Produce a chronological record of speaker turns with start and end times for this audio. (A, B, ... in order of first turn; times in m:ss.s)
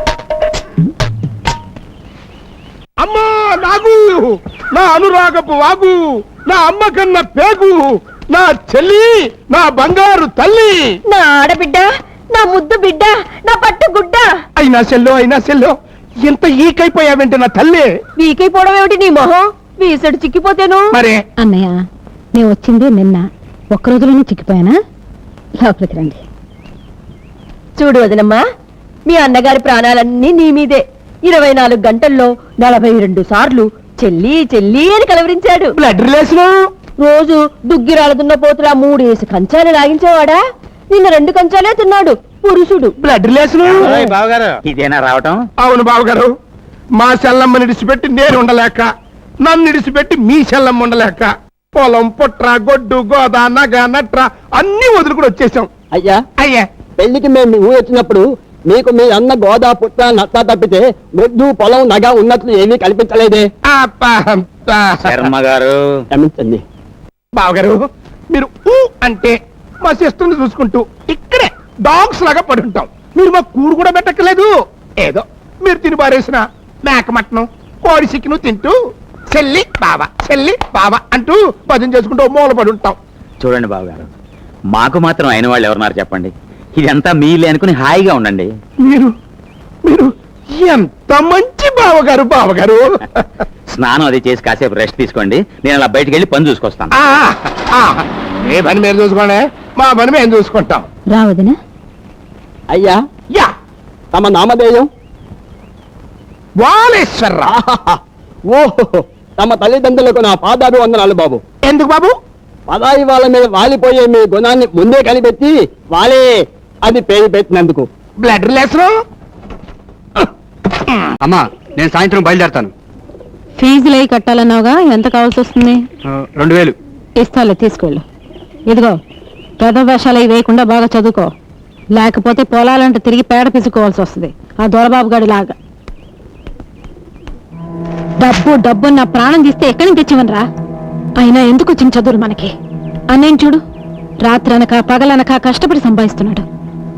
0:03.0-0:11.0 A
0:11.1-0:14.3 B
0:14.6-0:17.9 A
0:18.2-0:21.0 B
0:20.9-0:21.2 A
0:21.4-0:21.8 C
0:22.3-0:24.8 C
0:25.6-0:26.2 C
0:27.8-0:28.4 B
0:29.1-0:35.7 B
0:35.8-0:36.7 A
0:37.0-0:40.4 B
0:40.9-0:42.9 B
0:43.0-0:44.1 A
0:43.6-0:45.4 D
0:45.6-0:46.3 A
0:47.0-0:48.9 A
0:49.4-0:55.7 A
0:55.9-0:56.2 E
0:56.4-0:56.7 A
0:57.0-1:03.5 E
1:03.6-1:05.2 A
1:05.0-1:06.0 D
1:06.1-1:06.6 E
1:07.4-1:18.8 A
1:19.3-1:23.0 A
1:23.4-1:24.1 D
1:24.7-1:28.5 D
1:28.9-1:29.1 A
1:29.9-1:32.8 A
1:33.7-1:36.9 D
1:37.0-1:40.9 A
1:41.1-1:41.6 C
1:42.7-1:43.0 E
1:44.1-1:44.9 E
1:46.6-1:47.5 A
1:47.5-1:51.4 E
1:51.6-1:52.2 A
1:52.7-1:56.3 E
1:56.8-1:57.9 E
1:58.2-1:58.9 A
2:01.2-2:02.7 F
2:03.6-2:05.8 C
2:06.1-2:06.8 F
2:07.2-2:08.0 C
2:08.7-2:09.0 C
2:09.6-2:11.3 C
2:11.9-2:15.6 C
2:18.2-2:20.4 C
2:21.2-2:22.5 C
2:23.1-2:23.6 C
2:24.2-2:26.5 C